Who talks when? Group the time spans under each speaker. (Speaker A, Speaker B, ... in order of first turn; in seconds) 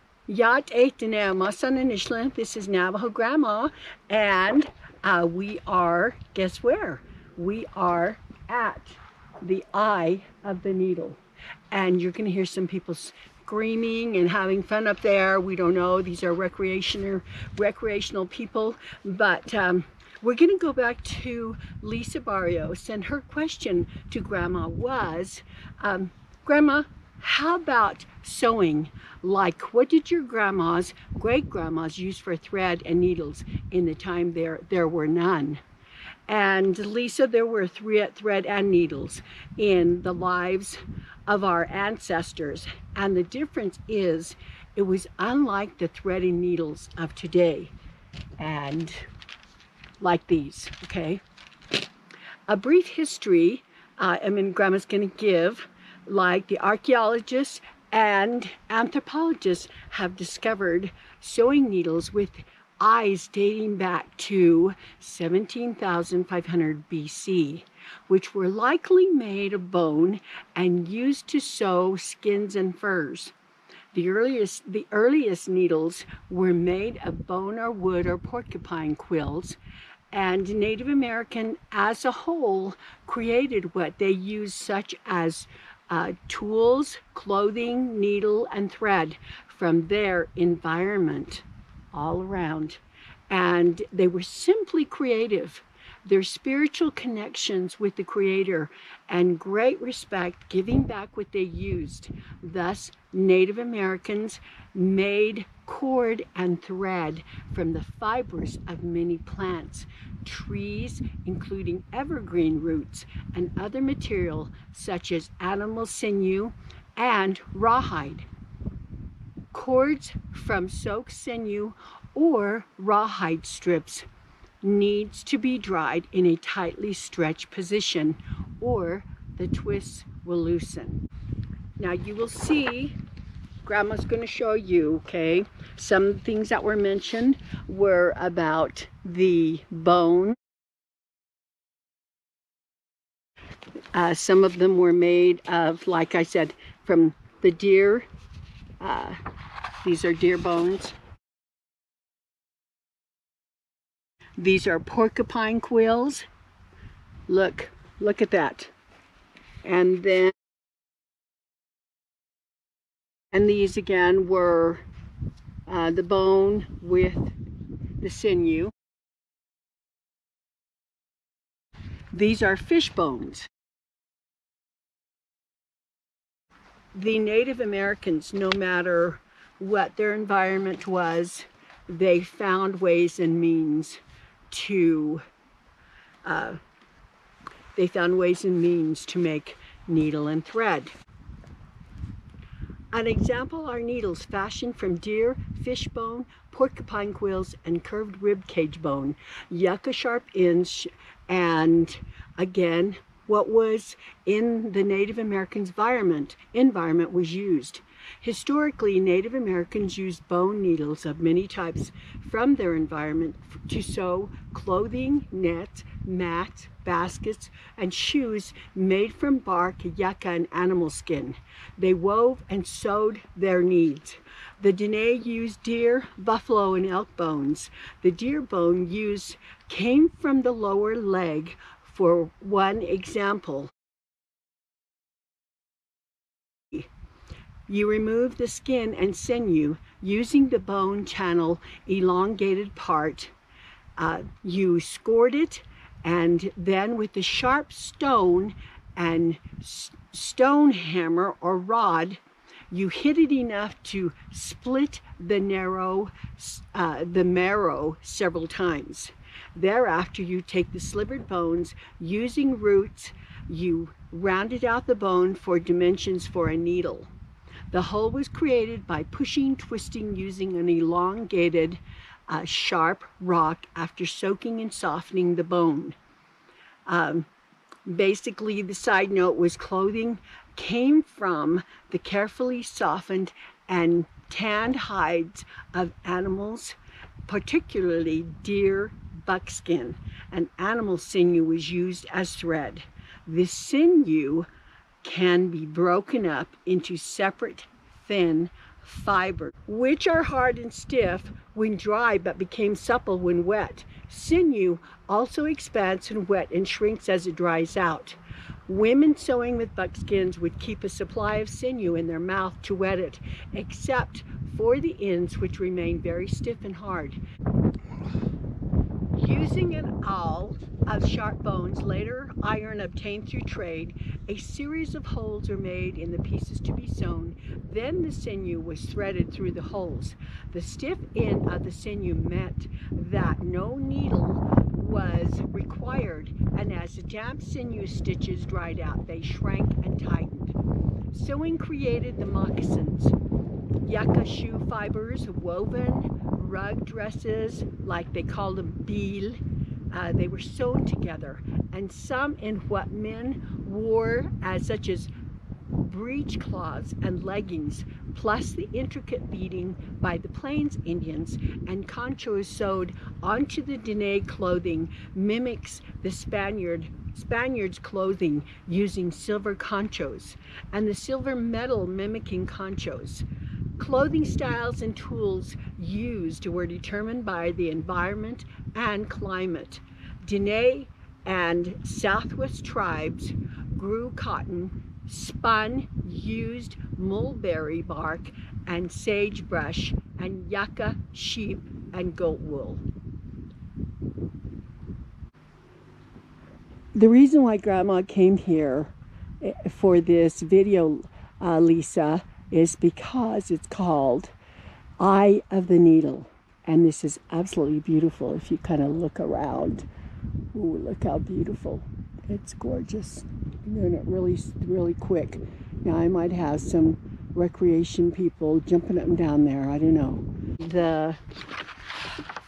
Speaker A: 0.3-11.2, 11.7-35.6, 36.3-47.7, 48.4-49.0, 50.0-51.2, 52.5-73.3, 73.9-79.6, 80.1-118.3, 119.5-124.1, 124.6-131.0, 131.8-133.0, 133.7-140.4, 143.9-148.1, 148.8-149.2, 149.8-151.0, 154.4-156.3, 157.3-158.7, 159.6-160.3, 163.3-164.8, 165.7-167.3, 168.0-168.7, 172.1-173.5, 176.9-184.0, 184.5-185.2, 186.2-186.6, 187.8-190.9, 192.9-233.7, 237.7-243.3, 244.0-252.2, 252.7-267.1, 267.7-276.0, 276.9-277.3, 277.9-294.5, 295.0-317.2, 319.1-340.5, 341.1-343.1, 343.8-349.4, 349.9-355.1, 355.8-373.3, 373.8-392.8, 396.9-404.3, 405.0-409.9, 410.5-421.2